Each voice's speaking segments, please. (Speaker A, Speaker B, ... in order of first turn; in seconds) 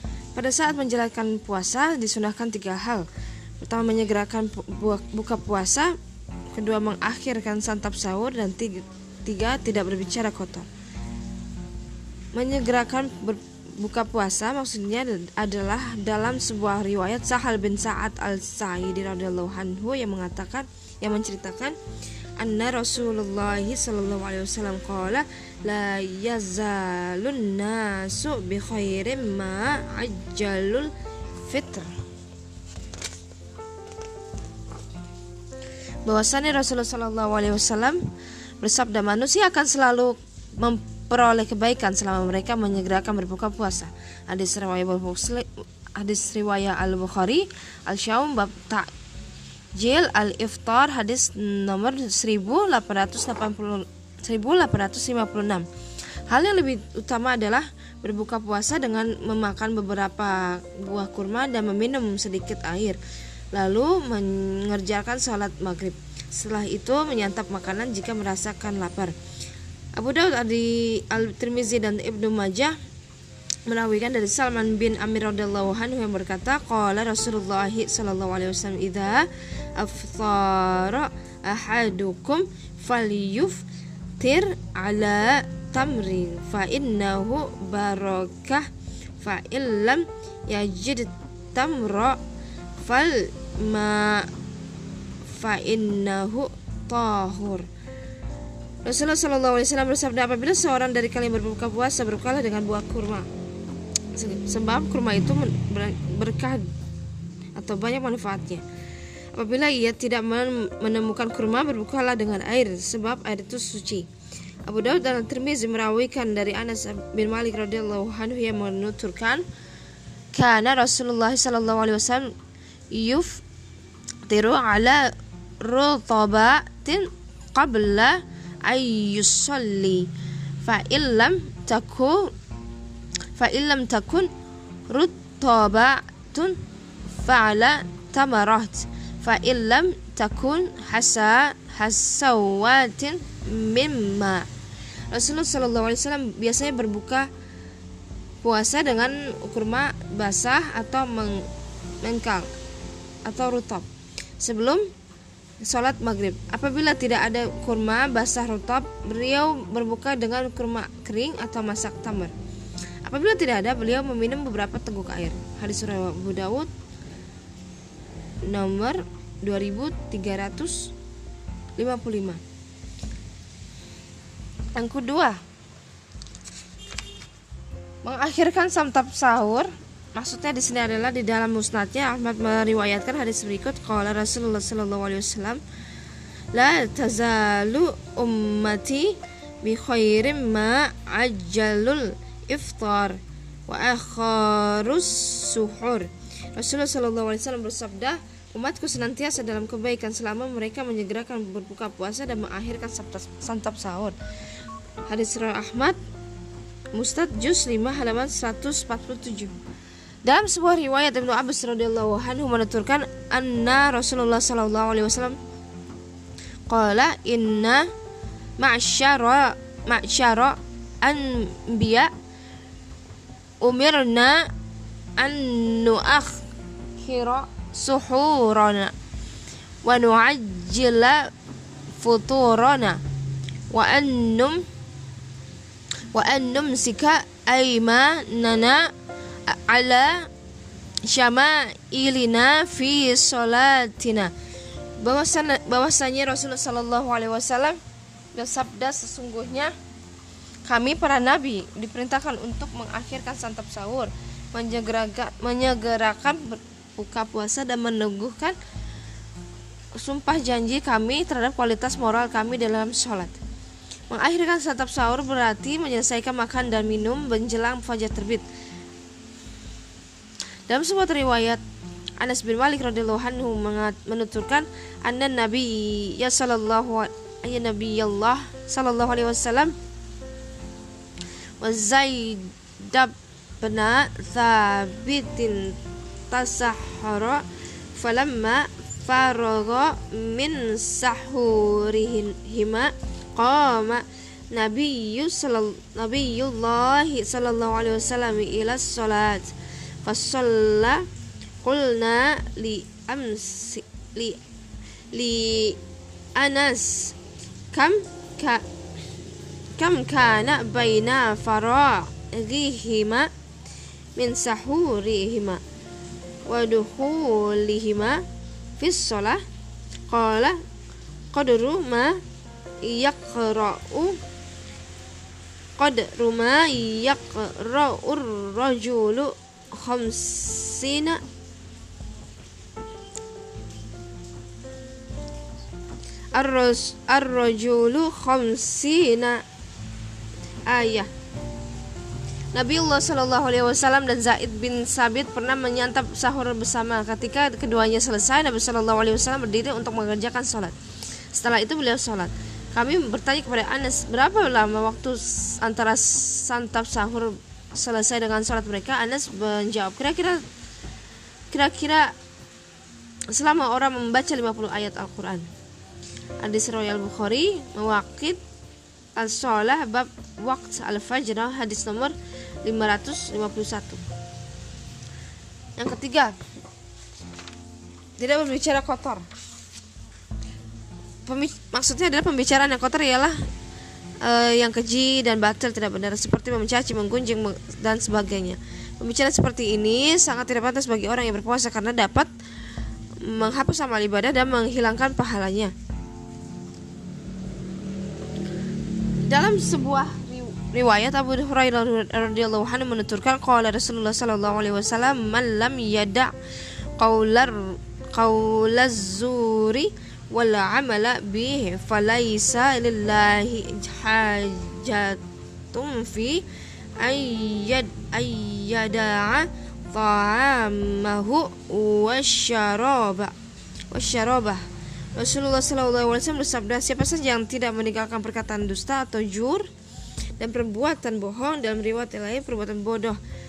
Speaker A: 0.3-3.1, 3.6-5.9, 6.5-10.7, 12.3-21.7, 22.4-31.9, 36.0-38.0, 38.6-48.9, 49.7-55.7, 56.3-63.0, 63.5-69.1, 70.0-72.8, 73.7-83.6, 84.2-88.7, 89.2-92.2, 92.8-94.3, 95.2-97.7, 98.8-103.3, 104.1-106.7, 107.5-108.6, 109.3-114.1, 114.7-119.4, 120.3-122.3, 122.9-123.4, 124.3-130.1, 130.6-132.3, 133.3-134.3, 134.9-136.6, 137.1-144.5, 145.1-147.3, 148.4-151.5, 152.0-152.5, 153.2-153.9, 154.4-154.8, 155.6-162.3, 163.0-166.7, 168.4-170.9, 171.8-172.4, 174.7-175.4, 178.0-185.6, 186.5-204.2, 205.1-206.0, 206.9-209.5, 210.2-215.4, 216.7-217.9, 218.6-222.1, 223.6-224.5, 225.2-226.4, 227.0-228.9, 229.8-231.3, 232.0-233.0, 233.7-234.6, 236.1-238.9, 239.5-240.3, 241.0-244.3, 245.0-247.8, 248.3-249.7, 250.7-258.6, 259.9-263.4, 264.1-268.4, 270.7-271.6, 272.2-279.8, 281.6-285.8, 286.3-299.5, 300.0-301.1, 301.6-304.4, 305.1-305.8, 306.4-307.1, 307.7-308.6, 309.8-313.3, 314.1-315.6, 316.5-318.2, 318.8-319.4, 320.1-320.6, 321.3-322.2, 322.8-324.2, 325.8-331.2, 336.3-339.4, 340.7-341.1, 342.5-350.8, 351.3-360.4, 361.5-362.1, 363.3-365.5, 366.4-368.4, 369.1-374.0, 375.8-376.4, 378.2-379.3, 381.2-383.4, 384.2-392.3, 393.2-395.7, 399.2-406.3, 407.0-415.2, 415.7-416.4, 417.0-423.3, 423.9-424.6, 425.1-429.7, 430.4-433.2